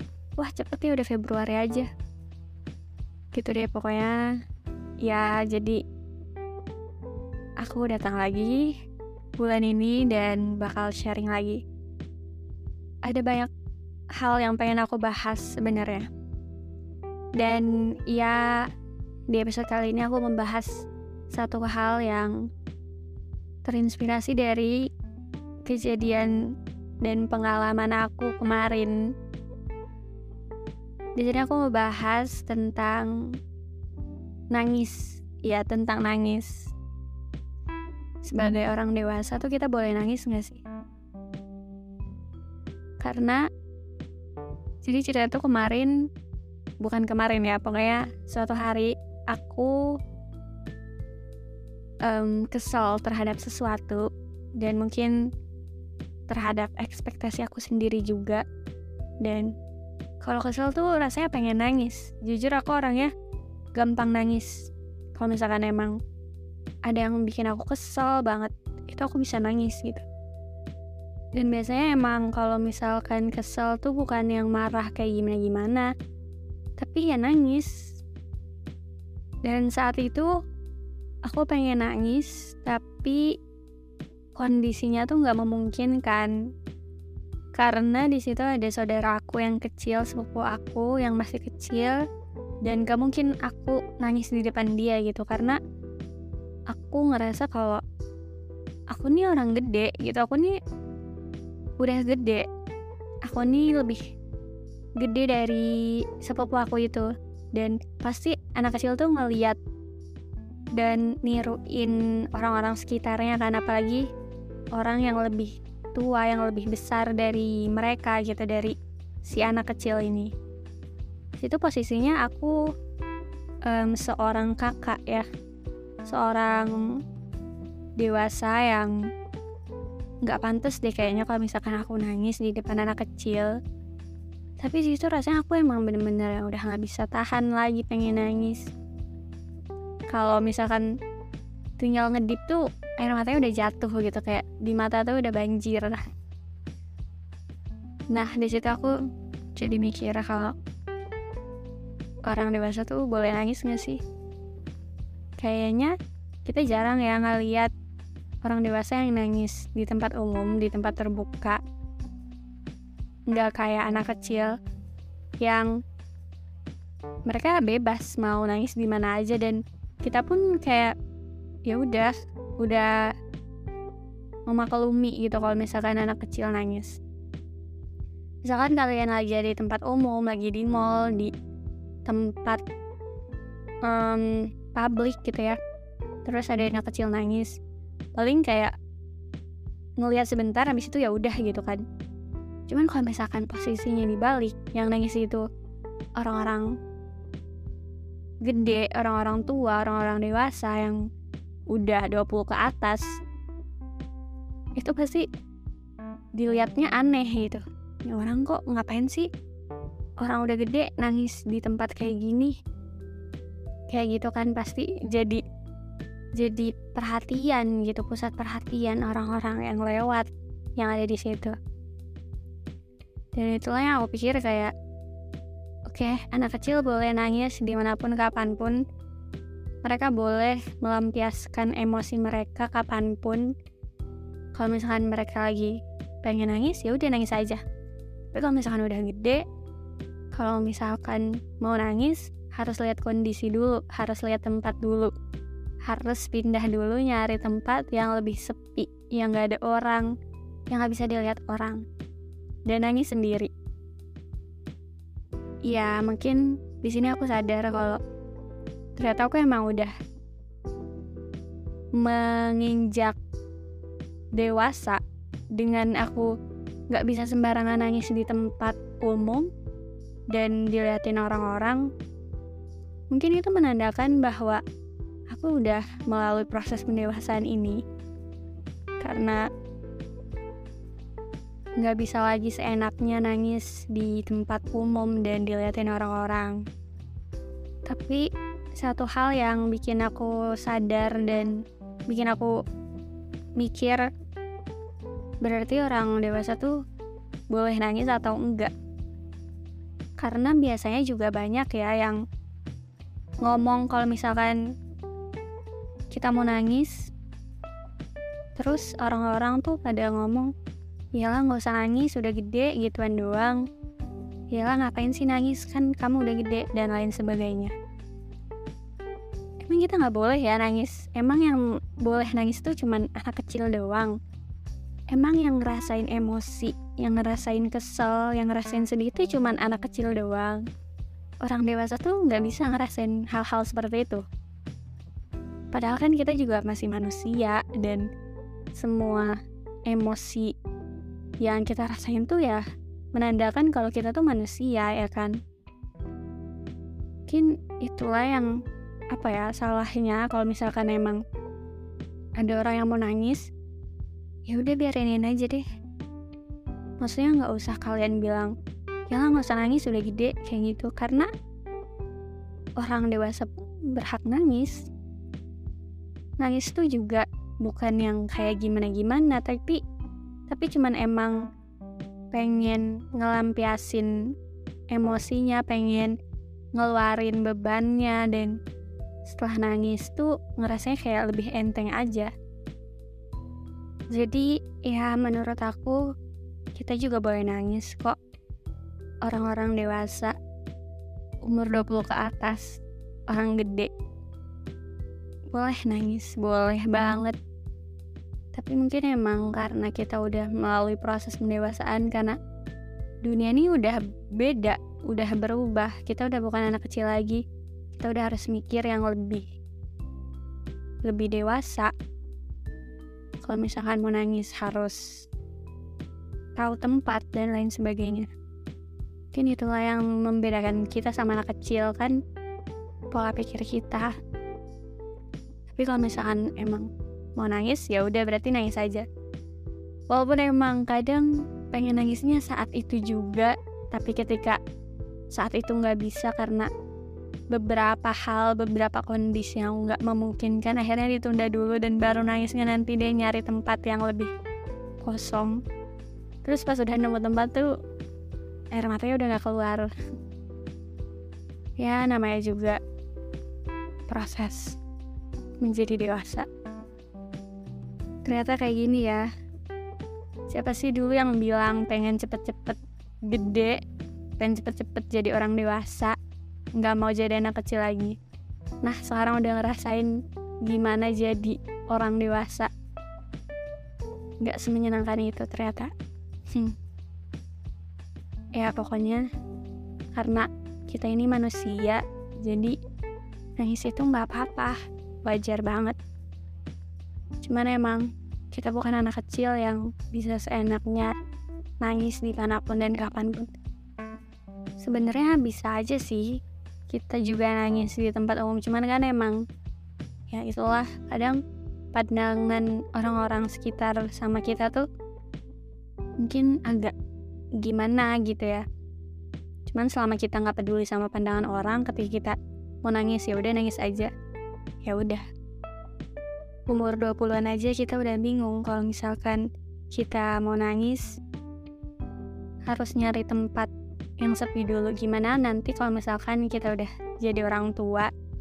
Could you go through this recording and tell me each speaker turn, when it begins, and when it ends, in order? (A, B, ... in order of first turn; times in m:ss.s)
0:00.4-0:01.9 A
0:03.3-0:04.2 A
0:05.0-0:05.8 A
0:07.6-0:08.7 A
0:09.4-0:11.6 A
0:13.0-0:13.5 A
0:14.2-0:16.0 A
0:17.4-0:18.5 A
0:19.3-0:22.3 A
0:23.6-0:24.7 A
0:25.7-0:26.3 A
0:27.0-0:29.0 A
0:31.2-0:33.1 A
0:34.5-0:36.7 A
0:38.2-0:40.6 A
0:43.0-0:43.4 A
0:44.8-0:45.9 A
0:46.8-0:49.7 A
0:52.0-0:54.0 A
0:54.6-0:55.1 A
0:56.3-0:58.4 A
0:59.2-0:59.5 A
1:00.2-1:03.1 A
1:03.8-1:04.5 A
1:05.2-1:05.9 A
1:06.8-1:10.0 A
1:11.3-1:15.9 A
1:16.8-1:18.0 A
1:19.4-1:20.3 A
1:21.2-1:23.2 A
1:24.3-1:26.3 A
1:27.6-1:32.0 A
1:32.6-1:35.6 A
1:36.7-1:37.8 A
1:38.9-1:40.5 A
1:41.8-1:42.4 A
1:43.2-1:44.0 A
1:45.0-1:49.6 A
1:50.7-1:54.0 A
1:54.7-2:00.3 A
2:01.4-2:02.5 A
2:03.6-2:05.2 A
2:06.1-2:06.8 A
2:08.0-2:08.9 A
2:10.2-2:13.5 A
2:14.6-2:18.6 A
2:20.1-2:20.8 A
2:21.8-2:26.0 A
2:28.1-2:28.9 A
2:29.5-2:30.5 A
2:32.2-2:34.0 A
2:35.4-2:35.9 A
2:36.4-2:37.7 A
2:38.4-2:41.6 A
2:43.3-2:44.6 A
2:45.4-2:45.7 A
2:47.3-2:50.9 A
2:51.7-2:52.9 A
2:54.5-2:56.9 A
2:58.4-3:01.3 A
3:02.0-3:02.6 A
3:03.8-3:05.6 A
3:06.2-3:07.6 A
3:08.2-3:08.7 A
3:10.0-3:11.8 A
3:12.7-3:15.4 A
3:16.2-3:16.7 A
3:18.4-3:21.0 A
3:21.7-3:23.0 A
3:24.8-3:25.2 A
3:26.4-3:29.3 A
3:30.2-3:32.6 A
3:33.9-3:35.4 A
3:36.4-3:41.5 A
3:43.3-3:44.7 A
3:45.9-3:48.8 A
3:49.8-3:53.4 A
3:54.5-3:57.6 A
3:58.3-3:59.4 A
4:00.3-4:05.1 A
4:05.8-4:10.1 A
4:10.7-4:11.8 A
4:12.7-4:13.5 A
4:15.6-4:18.0 A
4:19.0-4:19.9 A
4:22.0-4:23.2 A
4:24.4-4:25.0 A
4:25.6-4:26.3 A
4:26.9-4:29.5 A
4:30.3-4:31.8 A
4:33.1-4:34.6 A
4:35.3-4:37.8 A
4:39.0-4:39.4 A
4:41.8-4:46.6 A
4:47.9-4:48.2 A
4:48.8-4:52.5 A
4:53.6-4:54.1 A
4:55.4-4:56.8 A
4:57.5-4:58.7 A
5:00.2-5:02.2 A
5:03.4-5:04.6 A
5:06.1-5:07.1 A
5:08.6-5:10.5 A
5:11.1-5:13.6 A
5:14.5-5:17.7 A
5:19.6-5:24.1 A
5:25.1-5:30.6 A
5:31.4-5:34.2 A
5:35.7-5:38.0 A
5:38.7-5:39.3 A
5:39.9-5:40.5 A
5:41.4-5:42.6 A
5:43.1-5:45.3 A
5:47.3-5:48.5 A
5:49.1-5:51.2 A
5:52.4-5:53.5 A
5:54.5-5:55.6 A
5:57.0-5:58.5 A
5:59.1-6:01.3 A
6:02.8-6:04.8 A
6:06.4-6:09.8 A
6:10.5-6:11.3 A
6:12.3-6:14.1 A
6:14.9-6:16.1 A
6:16.7-6:18.5 A
6:19.2-6:22.3 A
6:24.1-6:26.0 A
6:26.7-6:28.2 A
6:29.2-6:30.3 A
6:31.4-6:33.9 A
6:35.5-6:37.4 A
6:38.5-6:42.4 A
6:43.2-6:47.4 A
6:47.9-6:49.5 A
6:51.0-6:51.9 A
6:53.4-6:55.3 A
6:56.6-6:58.3 A
6:59.3-7:02.1 A
7:03.1-7:04.1 A
7:05.7-7:06.8 A
7:07.4-7:09.0 A
7:10.1-7:14.6 A
7:15.3-7:16.7 A
7:17.5-7:24.3 A
7:25.0-7:25.6 A
7:26.4-7:27.7 A
7:28.7-7:29.9 A
7:31.8-7:32.8 A
7:34.1-7:34.8 A
7:35.6-7:36.4 A
7:38.2-7:39.3 A
7:40.5-7:43.8 A
7:44.4-7:46.2 A
7:46.8-7:48.2 A
7:48.8-7:50.1 A
7:50.6-7:52.7 A
7:54.4-7:55.9 A
7:58.6-7:59.2 A
8:00.1-8:02.7 A
8:03.6-8:06.0 A
8:07.4-8:11.1 A
8:11.8-8:13.5 A
8:14.8-8:16.3 A
8:16.9-8:19.4 A
8:20.3-8:21.4 A
8:21.9-8:24.8 A
8:26.2-8:26.9 A
8:27.6-8:28.6 A
8:29.7-8:34.1 A
8:34.8-8:35.2 A
8:36.7-8:39.4 A
8:39.9-8:41.2 A
8:42.6-8:48.1 A